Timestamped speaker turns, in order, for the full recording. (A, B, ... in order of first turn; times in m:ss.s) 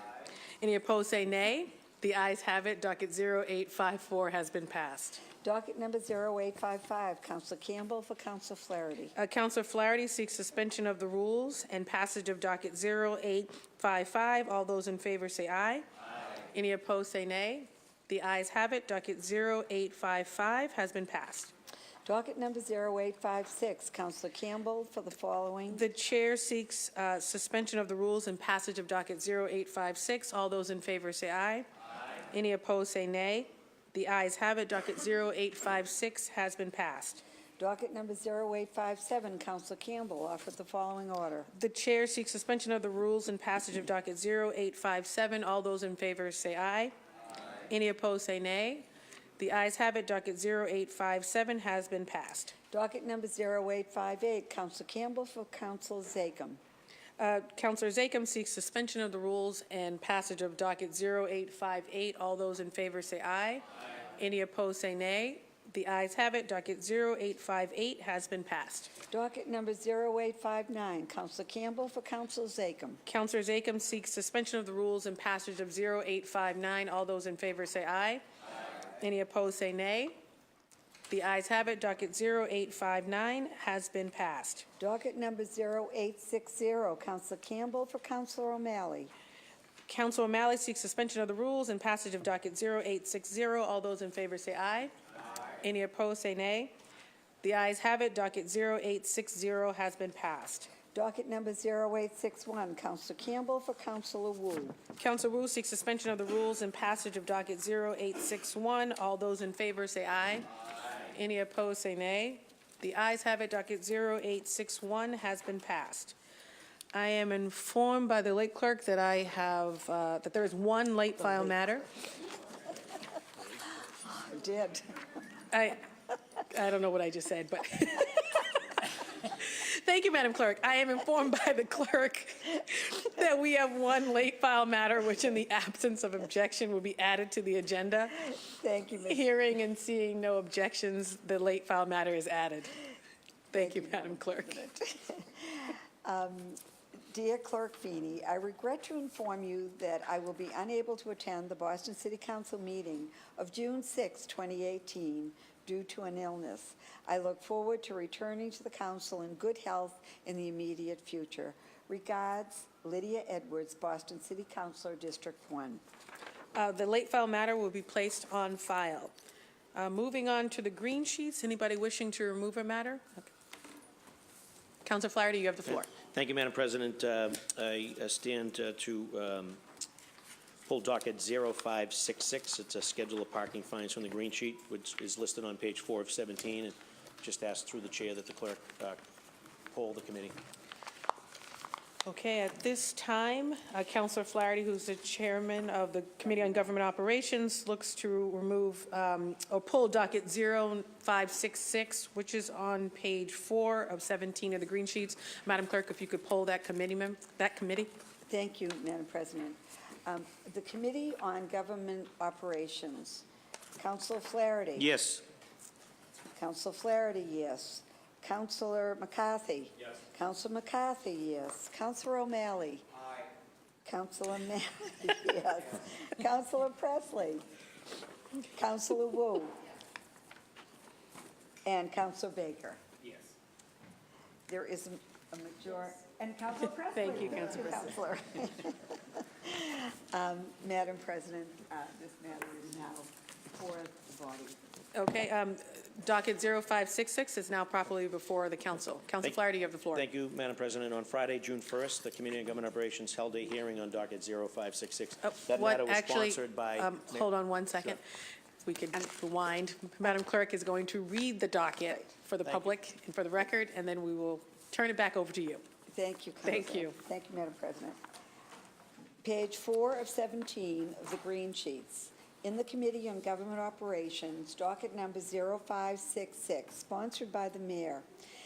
0:00.6-0:05.2 A
0:05.4-0:09.1 B
0:09.1-0:15.8 A
0:16.5-0:21.5 A
0:22.0-0:25.9 B
0:25.7-0:31.6 A
0:32.3-0:37.2 A
0:37.6-0:41.5 B
0:41.5-0:46.9 A
0:47.7-0:48.8 A
0:49.4-0:52.5 A
0:52.7-0:56.6 B
0:57.2-1:03.6 A
1:04.2-1:08.9 A
1:09.1-1:13.0 B
1:13.0-1:18.2 A
1:19.0-1:20.2 A
1:21.1-1:24.6 A
1:24.8-1:29.1 B
1:29.9-1:34.9 A
1:35.6-1:36.7 A
1:37.4-1:40.7 A
1:40.9-1:44.8 B
1:45.0-1:50.5 A
1:51.1-1:56.1 A
1:56.9-2:01.9 A
2:04.0-2:04.8 B
2:05.5-2:05.8 A
2:06.5-2:18.3 A
2:18.3-2:19.3 B
2:19.1-2:22.8 A
2:23.5-2:24.6 A
2:23.5-2:26.6 B
2:27.1-2:45.8 B
2:46.5-2:49.1 A
2:49.7-2:53.3 A
2:54.8-2:55.9 A
2:56.0-2:59.6 C
3:00.6-3:09.0 C
3:09.7-3:10.4 C
3:12.0-3:27.9 A
3:28.3-3:33.2 B
3:33.8-3:34.9 B
3:34.8-3:35.2 C
3:36.3-3:42.8 B
3:43.8-3:47.4 B
3:48.5-3:49.6 B
3:51.6-3:52.8 B
3:54.5-4:04.6 B
3:56.9-3:57.9 A
4:04.9-4:10.0 A
4:09.9-4:18.0 C
4:15.2-4:18.0 A
4:18.6-4:25.6 A
4:25.9-4:28.0 B
4:26.4-4:26.9 A
4:29.2-4:38.0 B